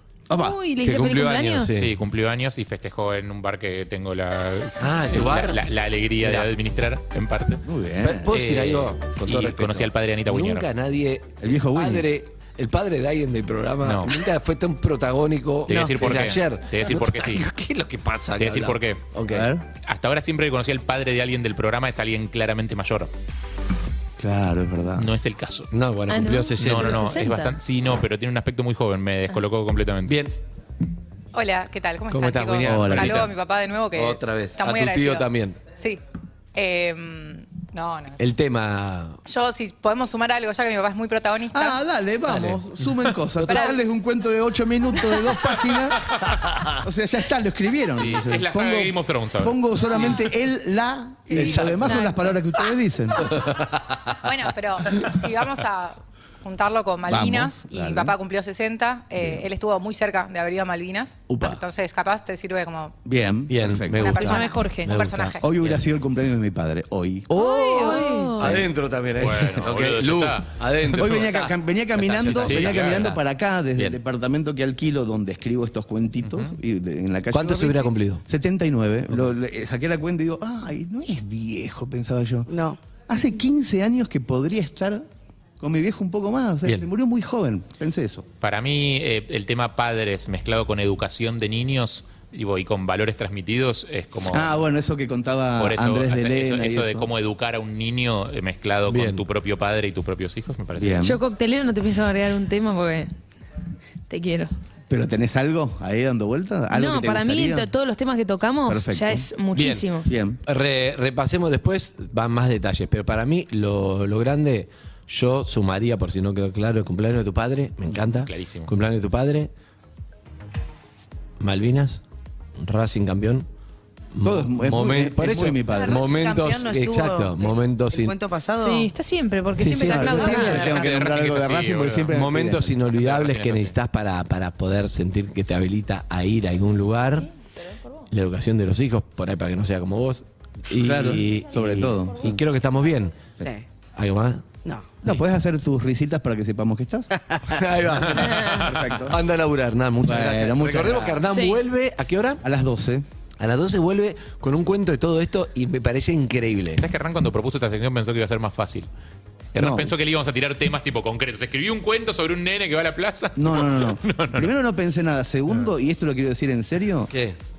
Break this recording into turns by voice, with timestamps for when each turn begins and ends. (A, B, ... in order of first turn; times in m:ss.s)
0:00.3-0:00.6 A
0:00.3-0:01.7 B
0:00.8-0:01.9 C
0:01.7-0:07.6 D
0:04.8-0:05.6 C
0:06.2-0:06.5 C
0:07.6-0:08.3 A
0:08.0-0:19.5 C
0:08.3-0:10.7 D
0:11.4-0:12.1 A
0:13.8-0:14.1 D
0:15.7-0:17.4 D
0:15.7-0:15.9 E
0:18.4-0:19.0 D
0:19.3-0:19.6 A
0:19.8-0:23.1 D
0:24.2-0:25.1 A
0:25.0-0:25.7 D
0:25.7-0:27.1 C
0:26.1-0:27.5 B
0:26.6-0:30.2 D
0:30.0-0:30.3 C
0:31.3-0:36.0 F
0:32.1-0:33.3 C
0:32.6-0:33.3 A
0:33.9-0:35.6 C
0:36.6-0:38.3 F
0:38.2-0:39.2 C
0:39.3-0:41.8 F
0:41.5-0:46.2 A
0:42.3-0:43.8 C
0:43.5-0:43.8 F
0:46.2-0:46.8 C
0:46.8-0:53.3 A
0:47.9-0:49.6 D
0:51.3-0:52.1 C
0:51.7-0:52.4 B
0:53.2-0:54.2 C
0:54.2-1:02.9 F
0:57.0-0:58.2 A
0:59.2-0:59.5 A
1:01.3-1:01.6 C
1:03.0-1:04.3 A
1:03.5-1:05.4 C
1:04.0-1:05.5 F
1:04.0-1:05.0 B
1:05.4-1:07.3 A
1:07.3-1:13.2 C
1:07.3-1:08.6 B
1:08.1-1:08.6 A
1:09.2-1:11.2 D
1:11.0-1:22.5 A
1:12.3-1:13.0 D
1:16.2-1:16.6 D
1:17.3-1:18.2 C
1:22.5-1:22.8 E
1:23.1-1:25.0 A
1:25.6-1:28.3 A
1:28.4-1:34.6 D
1:34.3-1:37.1 A
1:35.6-1:41.1 D
1:38.9-1:39.2 C
1:40.8-1:41.2 A
1:41.0-1:43.1 B
1:44.1-1:44.5 B
1:44.9-1:47.7 A
1:46.7-1:50.1 B
1:48.7-1:49.3 A
1:49.5-1:49.9 C
1:50.0-1:50.4 A
1:50.4-1:59.5 C
1:58.1-1:58.7 D
2:01.4-2:02.0 C
2:02.6-2:03.5 C
2:04.1-2:08.1 C
2:04.2-2:06.1 A
2:05.7-2:08.9 E
2:08.6-2:10.9 B
2:09.6-2:10.6 C
2:09.8-2:12.7 A
2:10.6-2:12.1 D
2:12.1-2:17.3 C
2:12.9-2:13.8 D
2:18.1-2:23.2 C
2:20.8-2:22.4 A
2:23.4-2:23.6 E
2:24.0-2:24.4 C
2:25.0-2:27.1 A
2:27.5-2:28.3 C
2:27.8-2:29.2 A
2:28.2-2:28.6 B
2:28.2-2:29.0 D
2:29.0-2:32.4 C
2:30.0-2:31.2 A
2:31.3-2:31.6 B
2:32.4-2:33.0 A
2:33.4-2:36.8 C
2:36.8-2:38.9 D
2:39.5-2:44.5 D
2:39.6-2:39.9 A
2:43.4-2:47.1 A
2:47.1-2:47.4 C